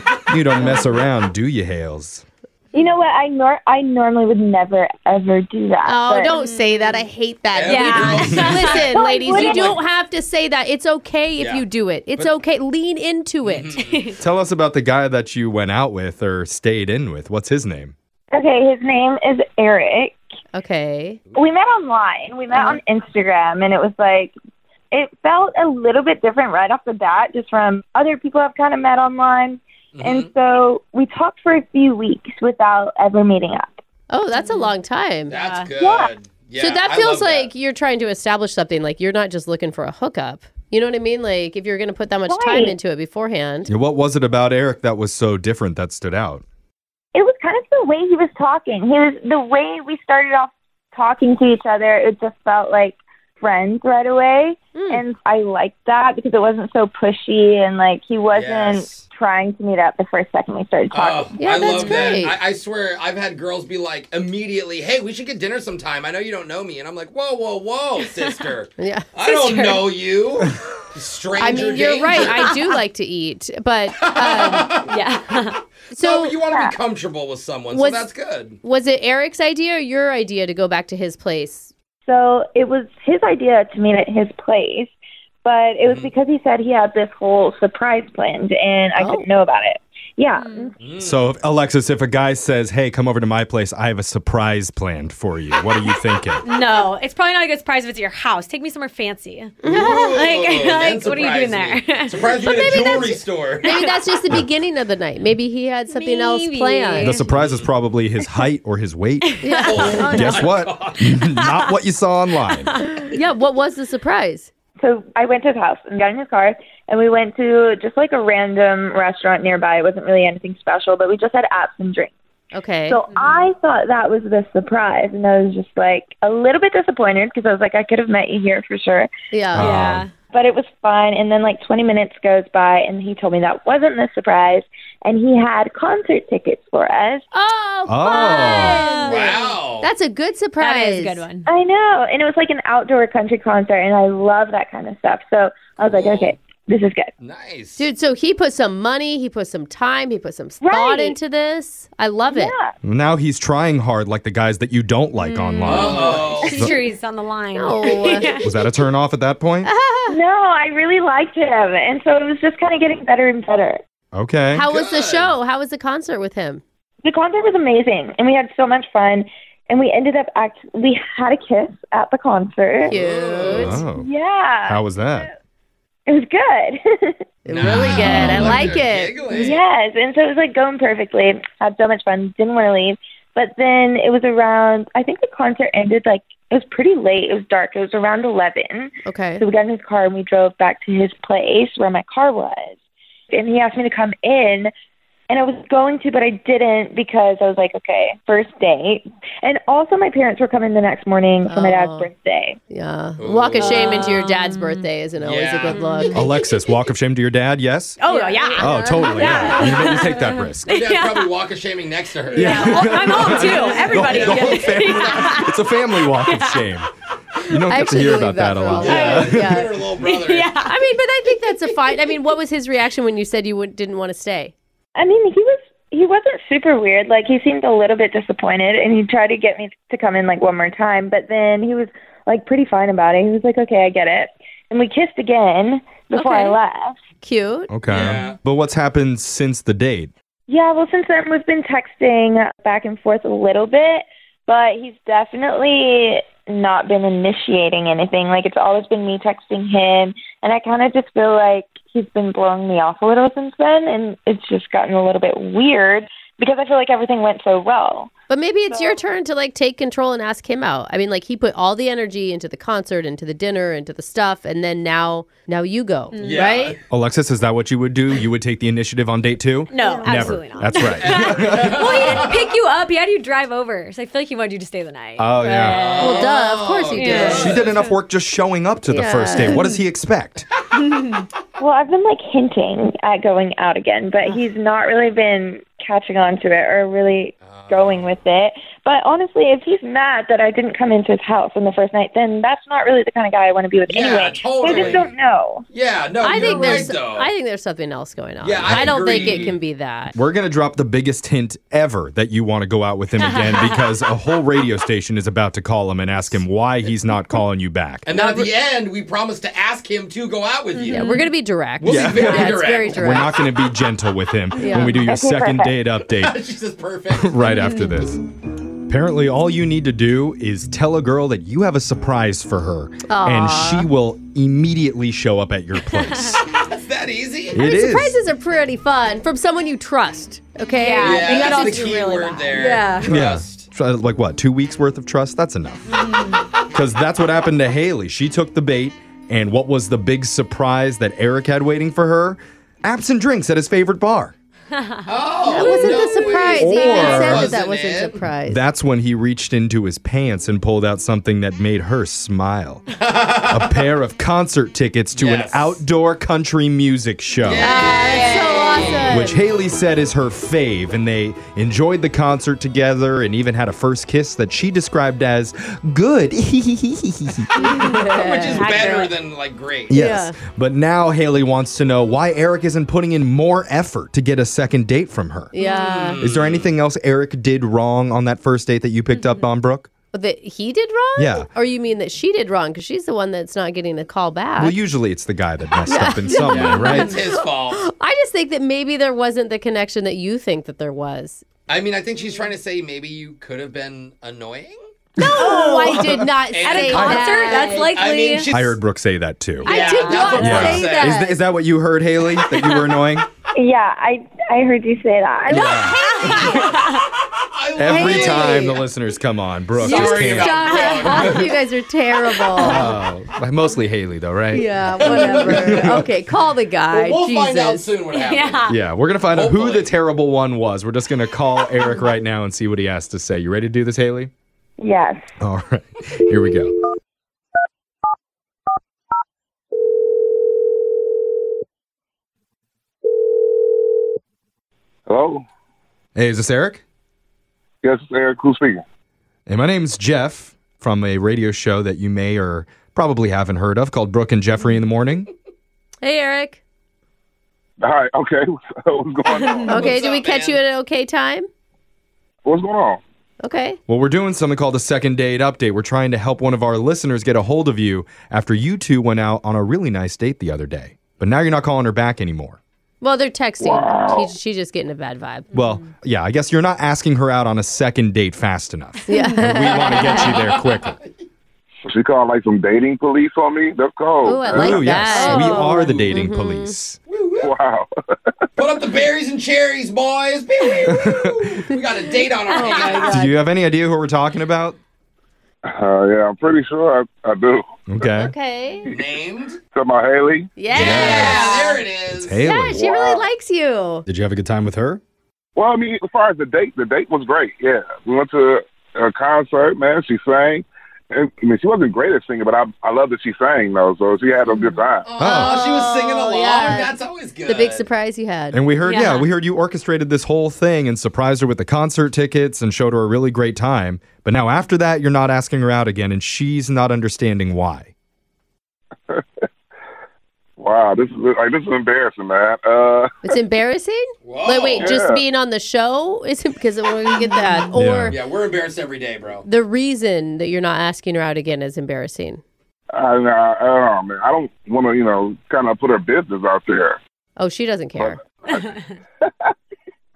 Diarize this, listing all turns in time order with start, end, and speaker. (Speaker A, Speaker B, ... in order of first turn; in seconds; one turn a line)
Speaker A: 0.3-2.2
Speaker B: 0.6-0.9
Speaker C: 2.7-6.3
Speaker B: 5.8-13.8
Speaker D: 6.3-7.0
Speaker E: 7.5-9.8
Speaker D: 7.7-8.8
Speaker A: 8.3-8.5
Speaker C: 8.8-9.8
Speaker E: 11.4-12.3
Speaker E: 13.4-14.1
Speaker D: 13.8-14.2
Speaker A: 14.2-17.9
Speaker C: 18.3-20.2
Speaker B: 20.5-21.2
Speaker C: 21.3-24.3
Speaker B: 22.5-22.8
Speaker C: 24.9-33.8
Speaker E: 29.9-30.3
Speaker B: 34.1-35.3
Speaker D: 34.3-34.7
Speaker D: 35.3-35.7
Speaker E: 35.3-37.5
Speaker C: 35.8-36.1
Speaker B: 36.6-43.7
Speaker C: 42.3-42.8
Speaker A: 43.7-46.4
Speaker C: 47.1-61.4
Speaker B: 54.8-55.0
Speaker E: 58.3-59.1
Speaker E: 60.9-72.5
Speaker B: 61.4-62.4
Speaker D: 61.7-62.2
Speaker B: 68.8-69.1
Speaker D: 69.2-69.9
Speaker B: 71.4-74.8
Speaker D: 72.2-72.5
Speaker E: 73.9-75.0
Speaker D: 74.4-75.6
Speaker E: 75.9-78.6
Speaker B: 75.9-76.4
Speaker C: 76.4-76.8
Speaker B: 77.7-78.1
Speaker B: 78.6-81.7
Speaker C: 82.1-84.9
Speaker C: 85.4-90.8
Speaker E: 85.8-86.1
Speaker B: 89.0-89.2
Speaker D: 90.4-90.7
Speaker E: 90.8-91.2
Speaker A: 91.0-96.4
Speaker D: 96.4-102.3
Speaker E: 99.6-103.8
Speaker B: 99.6-100.1
Speaker B: 102.3-107.2
Speaker D: 103.6-104.0
Speaker D: 105.9-107.3
Speaker A: 107.0-109.4
Speaker E: 107.3-107.7
Speaker D: 109.3-110.4
Speaker B: 109.4-110.5
Speaker E: 109.7-111.2
Speaker A: 110.0-112.7
Speaker D: 111.4-111.7
Speaker D: 112.6-113.1
Speaker B: 113.0-114.5
Speaker C: 114.8-122.1
Speaker B: 122.5-123.0
Speaker C: 122.9-129.1
Speaker D: 123.1-123.5
Speaker B: 129.3-129.8
Speaker A: 129.5-130.0
Speaker D: 129.6-130.1
Speaker C: 130.3-137.2
Speaker B: 137.3-141.2
Speaker A: 137.9-138.8
Speaker D: 138.1-139.5
Speaker E: 139.0-139.9
Speaker D: 140.6-141.4
Speaker C: 141.5-147.1
Speaker E: 145.8-146.4
Speaker E: 147.2-147.9
Speaker B: 147.8-152.5
Speaker C: 150.6-151.2
Speaker C: 152.3-152.7
Speaker A: 152.8-156.8
Speaker D: 155.2-158.7
Speaker E: 155.6-156.7
Speaker B: 155.7-156.1
Speaker B: 157.6-158.4
Speaker A: 158.1-159.7
Speaker B: 159.6-160.2
Speaker C: 160.1-163.8
Speaker A: 164.1-164.7
Speaker B: 164.5-166.6
Speaker E: 164.6-165.3
Speaker C: 167.0-172.9
Speaker E: 172.8-173.8
Speaker B: 172.9-173.8
Speaker A: 173.4-174.1
Speaker C: 173.8-174.8
Speaker A: 174.7-175.3
Speaker C: 176.1-177.2
Speaker B: 177.4-179.1
Speaker E: 177.5-179.6
Speaker A: 177.6-178.8
Speaker C: 179.3-192.7
Speaker B: 189.1-189.4
Speaker C: 193.3-194.7
Speaker C: 195.3-202.6
Speaker B: 201.4-202.1
Speaker B: 202.7-206.4
Speaker E: 203.2-204.1
Speaker D: 203.6-204.8
Speaker E: 205.2-205.8
Speaker D: 205.7-206.7
Speaker A: 206.1-208.0
Speaker D: 208.0-211.4
Speaker B: 208.1-209.9
Speaker A: 208.6-210.7
Speaker E: 210.7-212.6
Speaker D: 212.3-216.8
Speaker A: 212.4-216.9
Speaker B: 212.4-214.0
Speaker E: 213.4-215.5
Speaker A: 217.5-219.5
Speaker B: 217.7-219.8
Speaker E: 218.7-220.5
Speaker D: 220.0-220.8
Speaker B: 220.7-224.5
Speaker C: 224.9-237.0
Speaker B: 236.1-236.6
Speaker B: 237.2-237.7
Speaker A: 237.7-240.1
Speaker E: 237.9-238.4
Speaker C: 240.5-258.1
Speaker B: 258.3-266.8
Speaker C: 258.7-259.0
Speaker D: 266.1-266.5
Speaker E: 266.2-266.8
Speaker A: 266.9-272.3
Speaker D: 269.7-276.3
Speaker B: 270.0-270.4
Speaker E: 270.9-272.5
Speaker A: 275.2-275.9
Speaker E: 275.6-277.9
Speaker B: 276.0-277.6
Speaker D: 276.9-277.9
Speaker A: 277.1-280.4
Speaker B: 278.9-279.6
Speaker D: 279.4-279.8
Speaker D: 280.8-281.2
Speaker C: 281.6-295.6
Speaker E: 287.4-288.1
Speaker E: 293.9-295.2
Speaker E: 295.7-297.3
Speaker B: 296.2-300.1
Speaker D: 296.3-296.8
Speaker E: 298.4-299.6
Speaker A: 298.7-299.4
Speaker A: 300.1-308.1
Speaker D: 303.2-303.9
Speaker E: 308.1-311.2
Speaker B: 308.1-308.5
Speaker D: 310.7-311.3
Speaker B: 310.9-313.4
Speaker E: 311.8-313.3
Speaker A: 311.9-312.4
Speaker A: 312.9-316.4
Speaker B: 314.6-315.0
Speaker C: 315.0-315.7
Speaker E: 315.9-317.4
Speaker A: 317.1-318.2
Speaker D: 317.5-317.9
Speaker A: 318.9-326.5
Speaker B: 323.1-323.9
Speaker E: 326.7-327.7
Speaker A: 327.5-328.2
Speaker B: 327.6-331.8
Speaker D: 330.8-333.1
Speaker E: 331.0-333.7
Speaker A: 333.0-335.9
Speaker D: 335.9-336.4
Speaker A: 336.7-344.4
Speaker E: 345.1-348.2
Speaker B: 345.5-348.6
Speaker A: 346.5-347.5
Speaker A: 348.4-352.8
Speaker E: 352.9-353.9
Speaker A: 353.5-357.8
Speaker E: 355.1-355.8
Speaker E: 357.4-359.2
Speaker B: 357.6-359.4
Speaker A: 359.1-367.5
Speaker D: 367.6-369.1
Speaker B: 367.6-368.8
Speaker E: 368.1-370.0
Speaker A: 369.9-375.5
Speaker B: 369.9-370.4
Speaker B: 375.5-376.2
Speaker E: 375.6-376.7
Speaker A: 376.2-379.9
Speaker B: 380.1-384.8
Speaker A: 381.2-381.5
Speaker A: 384.6-387.2
Speaker B: 385.9-391.4
Speaker E: 386.4-387.9
Speaker E: 391.7-394.8
Speaker B: 395.2-398.0
Speaker A: 395.2-396.2
Speaker D: 395.3-396.0
Speaker E: 396.5-398.8
Speaker D: 396.6-398.5
Speaker A: 398.5-399.7
Speaker D: 399.6-400.4
Speaker E: 399.6-401.2
Speaker B: 399.6-401.4
Speaker A: 400.4-403.2
Speaker D: 402.5-403.0
Speaker C: 403.6-405.9
Speaker A: 405.5-406.6
Speaker D: 405.5-407.1
Speaker B: 406.0-406.3
Speaker E: 406.5-408.9
Speaker A: 407.8-411.4
Speaker B: 407.8-408.8
Speaker D: 409.8-411.3
Speaker E: 409.8-411.6
Speaker B: 410.0-412.9
Speaker E: 412.3-412.9
Speaker A: 412.6-416.1
Speaker B: 414.5-417.9
Speaker E: 415.0-415.9
Speaker E: 416.9-418.7
Speaker D: 418.1-418.8
Speaker A: 418.7-424.3
Speaker E: 419.3-419.9
Speaker C: 424.8-425.3
Speaker A: 425.4-426.8
Speaker F: 435.1-435.4
Speaker A: 436.1-436.8
Speaker F: 437.8-438.8
Speaker A: 439.5-445.3
Speaker B: 446.0-446.6
Speaker F: 447.8-449.4
Speaker E: 449.3-450.6
Speaker C: 449.5-449.9
Speaker D: 449.6-449.8
Speaker B: 449.7-451.5
Speaker F: 452.4-453.0
Speaker B: 453.4-453.8
Speaker A: 453.9-462.6
Speaker B: 463.0-465.6
Speaker F: 463.6-464.3
Speaker A: 465.5-471.0
Speaker B: 469.1-470.2
Speaker D: 469.2-470.4
Speaker E: 469.7-471.2
Speaker F: 471.9-474.7
Speaker B: 474.2-476.8
Speaker A: 474.5-477.0
Speaker D: 474.7-475.7
Speaker E: 475.2-476.3
Speaker E: 477.1-477.6
Speaker F: 477.4-477.9
Speaker E: 478.6-483.2
Speaker A: 480.9-481.4
Speaker D: 482.5-483.2
Speaker B: 482.5-483.4
Speaker A: 483.1-484.8
Speaker F: 485.7-487.6
Speaker A: 487.9-488.3
Speaker B: 488.0-488.9
Speaker E: 488.9-489.6
Speaker F: 489.7-490.5
Speaker B: 490.6-491.9
Speaker E: 490.7-492.5
Speaker A: 490.7-491.5
Speaker A: 492.1-492.8
Speaker B: 492.4-494.0
Speaker F: 492.8-493.2
Speaker A: 494.1-495.0
Speaker F: 495.6-505.1
Speaker B: 504.6-506.9
Speaker E: 505.0-507.9
Speaker A: 505.2-505.6
Speaker B: 507.5-508.6
Speaker A: 508.5-517.9
Speaker D: 508.8-509.3
Speaker F: 520.6-523.1
Speaker B: 523.2-528.2
Speaker E: 524.2-525.0
Speaker F: 524.8-525.2
Speaker A: 527.8-528.2
Speaker E: 528.1-529.4
Speaker B: 529.4-532.4
Speaker F: 532.9-537.0
Speaker B: 537.4-538.2
Speaker F: 538.0-538.6